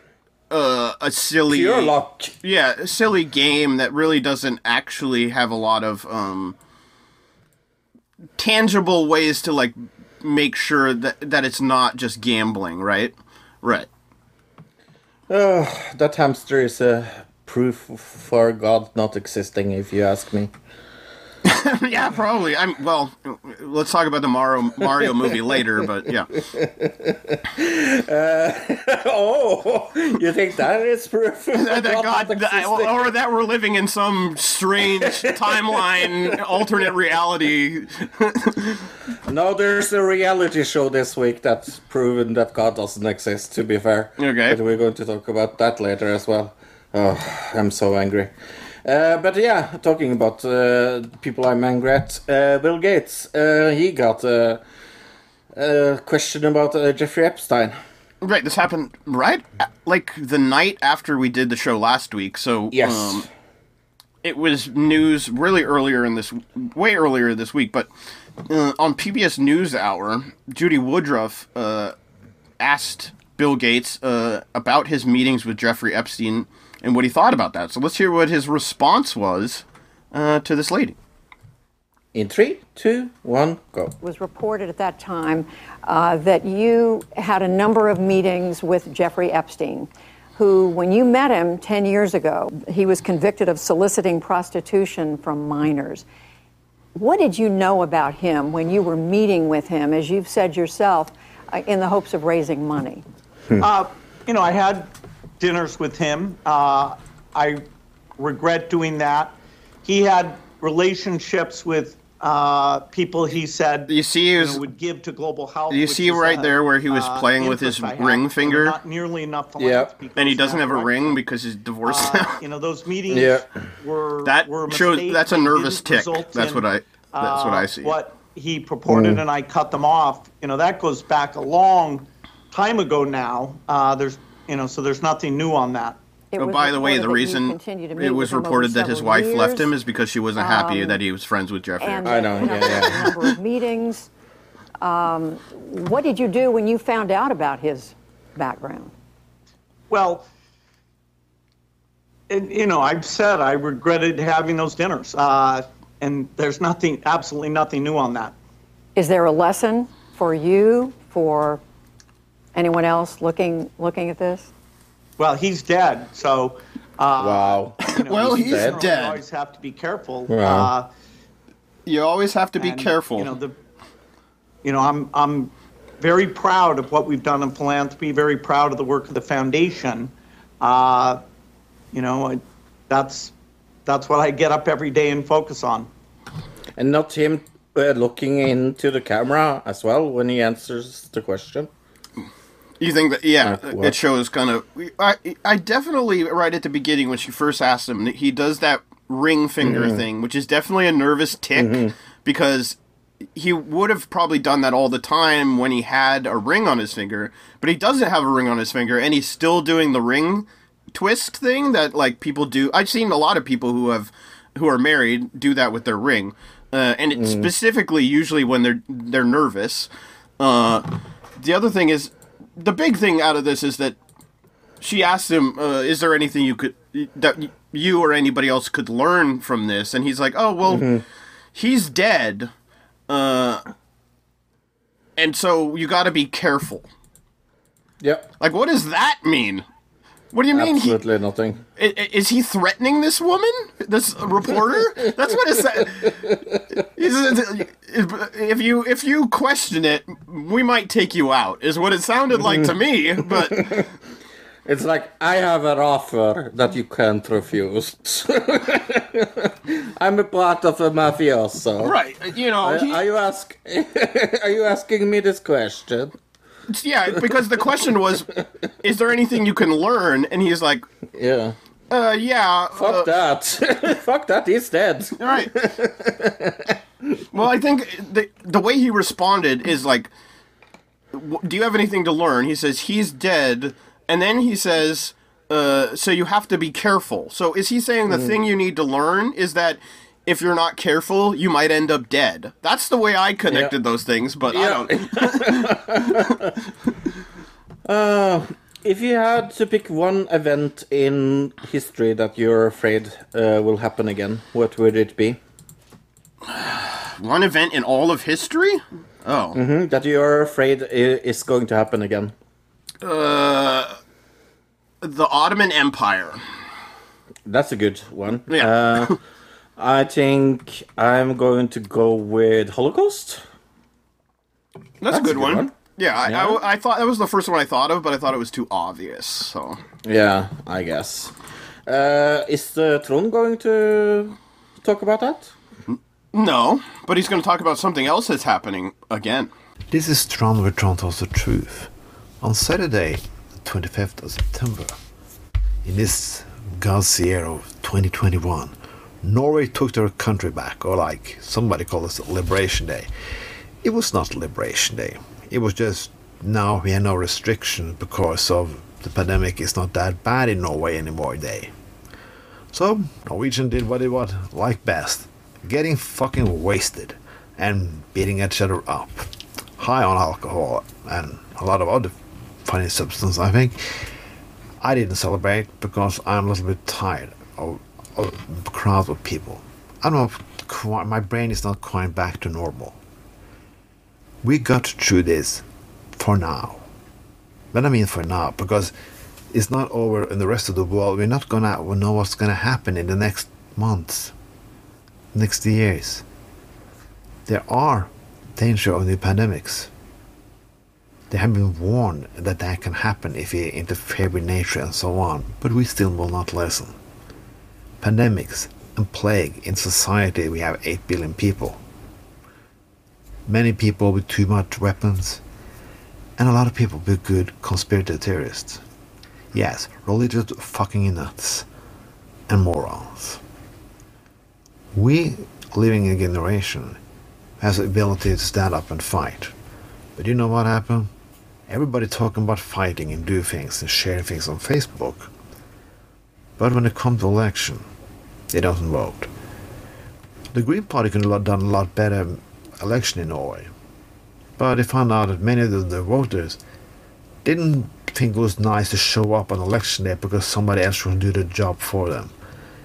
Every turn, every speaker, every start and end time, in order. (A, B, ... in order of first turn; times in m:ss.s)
0:00.5-0:06.6 A
0:01.5-0:02.3 B
0:08.4-0:13.9 A
0:15.3-0:20.5 B
0:21.4-0:26.3 A
0:26.3-0:33.0 B
0:31.5-0:38.8 A
0:39.3-0:48.3 B
0:44.2-0:44.6 A
0:48.8-0:54.6 B
0:55.5-0:57.8 B
0:58.2-1:03.2 A
1:02.7-1:03.3 B
1:04.2-1:07.9 A
1:08.4-1:11.9 A
1:12.6-1:21.0 A
1:22.1-1:23.9 B
1:24.0-1:36.0 C
1:36.9-1:43.0 C
1:43.6-1:47.6 D
1:48.2-2:01.2 D
1:53.9-1:54.6 A
1:55.7-1:58.8 A
1:59.6-1:59.9 B
2:00.2-2:02.4 A
2:01.8-2:16.0 D
2:03.1-2:03.5 B
2:04.2-2:07.9 A
2:08.9-2:09.2 B
2:16.3-2:19.7 C
2:16.4-2:23.2 A
2:20.4-2:21.0 C
2:21.8-2:24.1 C
2:22.0-2:23.1 B
2:24.8-2:28.9 C
2:29.9-2:30.3 D
2:32.3-2:38.4 D
2:39.0-2:41.6 C
2:42.5-2:44.5 C
2:45.2-2:50.9 D
2:47.2-2:48.9 B
2:47.8-2:49.2 A
2:50.3-2:50.7 B
2:51.8-2:53.3 A
2:52.6-2:53.5 D
2:54.6-3:01.2 D
3:01.9-3:03.3 D
3:03.8-3:05.9 D
3:06.8-3:11.7 B
3:12.8-3:22.8 A
3:13.4-3:14.0 B
3:19.6-3:20.0 B
3:21.6-3:21.9 B
3:23.3-3:44.0 A
3:37.1-3:37.5 B
3:44.8-3:50.9 A
3:50.6-3:51.0 B
3:51.5-3:52.5 A
3:53.1-3:53.6 A
3:55.2-3:56.9 A
3:58.0-3:58.3 B
3:58.4-3:59.6 A
4:00.3-4:01.0 A
4:00.5-4:01.6 B
4:01.8-4:06.2 A
4:05.0-4:05.5 B
4:06.8-4:13.9 A
4:14.6-4:22.0 B
4:21.8-4:23.0 A
4:22.6-4:26.1 B
4:26.7-4:28.3 A
4:28.8-4:30.8 A
4:31.1-4:31.6 B
4:31.9-4:33.1 A
4:32.7-4:37.2 B
4:35.2-4:35.5 A
4:37.3-4:40.1 A
4:41.1-4:56.3 A
4:48.1-4:48.3 B
4:53.5-4:53.7 B
4:54.5-4:56.5 B
4:57.8-5:05.4 B
5:06.5-5:09.6 A
5:09.5-5:12.3 B
5:13.0-5:14.0 A
5:15.0-5:16.4 A
5:17.5-5:19.2 B
5:18.5-5:19.2 A
5:19.8-5:23.4 B
5:25.0-5:29.8 A
5:25.1-5:25.7 B
5:26.2-5:26.6 B
5:30.0-5:31.3 B
5:31.8-5:35.5 B
5:35.9-5:39.5 A
5:39.9-5:45.0 E
5:45.8-5:53.1 E
5:53.8-6:01.7 E
6:02.7-6:14.1 E
6:14.8-6:23.0 E
6:24.4-6:26.8 E
6:27.7-6:28.9 E
6:29.5-6:34.3 E
6:35.3-6:36.2 E
6:37.4-6:39.9 E
6:41.3-6:47.0 E
6:48.0-6:51.8 E
6:53.4-6:55.4 E
6:56.4-6:58.8 E
6:59.5-7:01.6 E
7:02.5-7:03.4 E
7:04.9-7:07.0 E
7:07.6-7:09.5 E
7:10.2-7:11.1 E
7:11.7-7:15.3 E
7:16.6-7:17.9 E
7:18.5-7:19.3 E
7:20.5-7:23.7 E
7:24.6-7:26.6 E
7:27.4-7:32.3 E